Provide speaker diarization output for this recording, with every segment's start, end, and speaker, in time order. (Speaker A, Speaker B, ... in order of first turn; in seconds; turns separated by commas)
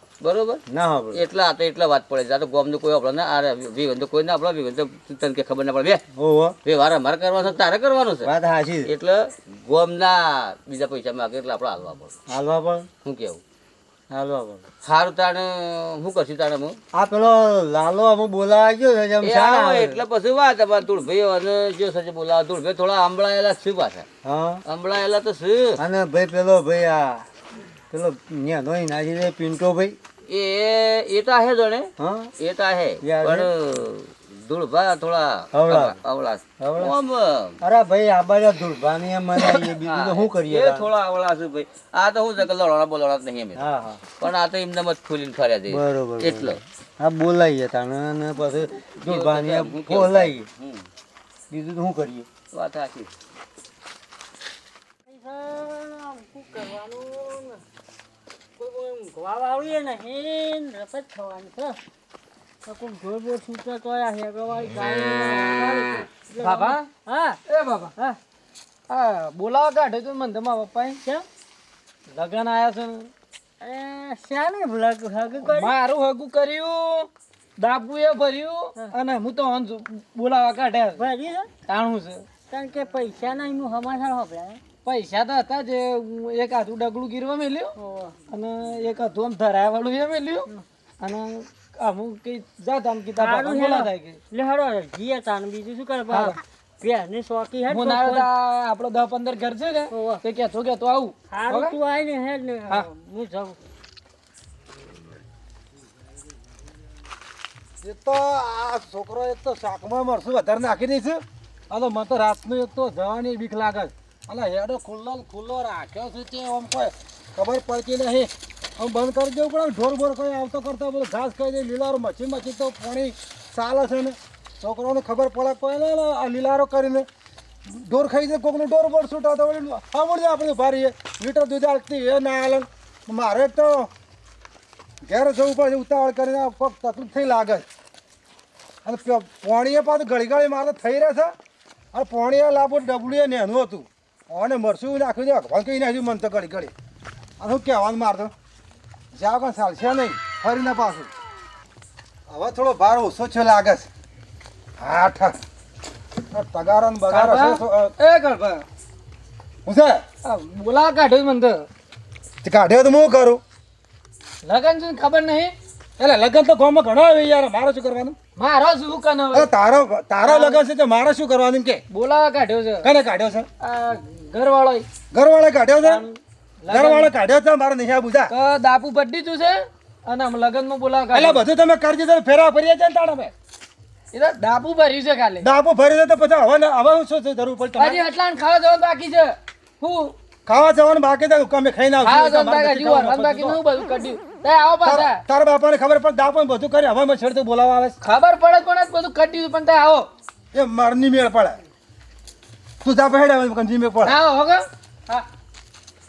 Speaker A: 0.2-0.6, Speaker B: 0.7-1.2, Speaker A: 1.1-6.0, Speaker B: 6.1-6.6, Speaker A: 6.6-8.3, Speaker B: 8.2-8.9, Speaker A: 8.8-12.2, Speaker B: 12.3-12.9, Speaker A: 13.0-13.4, Speaker B: 14.1-14.7, Speaker A: 14.8-16.8, Speaker B: 16.9-20.0, Speaker A: 19.2-24.1, Speaker B: 24.2-24.6, Speaker A: 24.7-25.8, Speaker B: 25.8-27.3, Speaker B: 27.9-30.0, Speaker A: 30.3-37.6, Speaker B: 32.0-32.3, Speaker B: 33.0-33.5, Speaker B: 35.5-36.0, Speaker B: 36.6-36.9, Speaker B: 37.6-40.9, Speaker A: 39.4-43.7, Speaker B: 43.5-44.0, Speaker A: 44.2-46.6, Speaker B: 45.7-50.5, Speaker A: 49.0-50.9, Speaker B: 51.5-52.3, Speaker A: 52.5-53.1, Speaker C: 55.1-57.6, Speaker C: 58.6-61.8, Speaker C: 62.6-67.4, Speaker D: 66.4-66.9, Speaker D: 67.5-67.9, Speaker D: 68.9-71.0, Speaker D: 72.1-73.1, Speaker C: 73.6-75.7, Speaker D: 75.4-81.0, Speaker C: 81.0-81.5, Speaker D: 81.7-82.3, Speaker C: 82.5-84.6, Speaker D: 84.8-90.5, Speaker C: 87.8-88.2, Speaker D: 91.0-94.2, Speaker C: 93.2-98.3, Speaker D: 96.1-96.4, Speaker D: 97.7-101.8, Speaker C: 99.9-100.2, Speaker C: 101.3-103.6, Speaker E: 107.8-127.1, Speaker E: 127.7-133.9, Speaker E: 135.1-137.7, Speaker E: 138.8-141.3, Speaker E: 141.9-146.7, Speaker E: 147.4-148.3, Speaker E: 149.1-151.1, Speaker E: 152.3-153.9, Speaker E: 154.8-155.4, Speaker E: 156.3-157.9, Speaker D: 157.1-158.7, Speaker E: 159.7-160.0, Speaker D: 160.2-161.7, Speaker E: 162.4-163.4, Speaker D: 164.4-165.6, Speaker E: 166.0-168.2, Speaker D: 168.4-169.5, Speaker E: 169.3-171.8, Speaker D: 170.2-170.6, Speaker D: 171.9-172.9, Speaker E: 172.8-173.5, Speaker D: 173.6-174.9, Speaker E: 175.1-176.0, Speaker D: 175.8-177.1, Speaker E: 176.7-178.3, Speaker D: 178.3-181.4, Speaker E: 181.1-183.3, Speaker D: 184.1-185.5, Speaker E: 185.4-188.1, Speaker D: 187.8-190.2, Speaker E: 190.5-193.6, Speaker D: 192.0-195.2, Speaker E: 194.8-198.0, Speaker D: 198.0-200.1, Speaker E: 200.5-201.6, Speaker E: 202.8-204.2, Speaker D: 204.0-205.3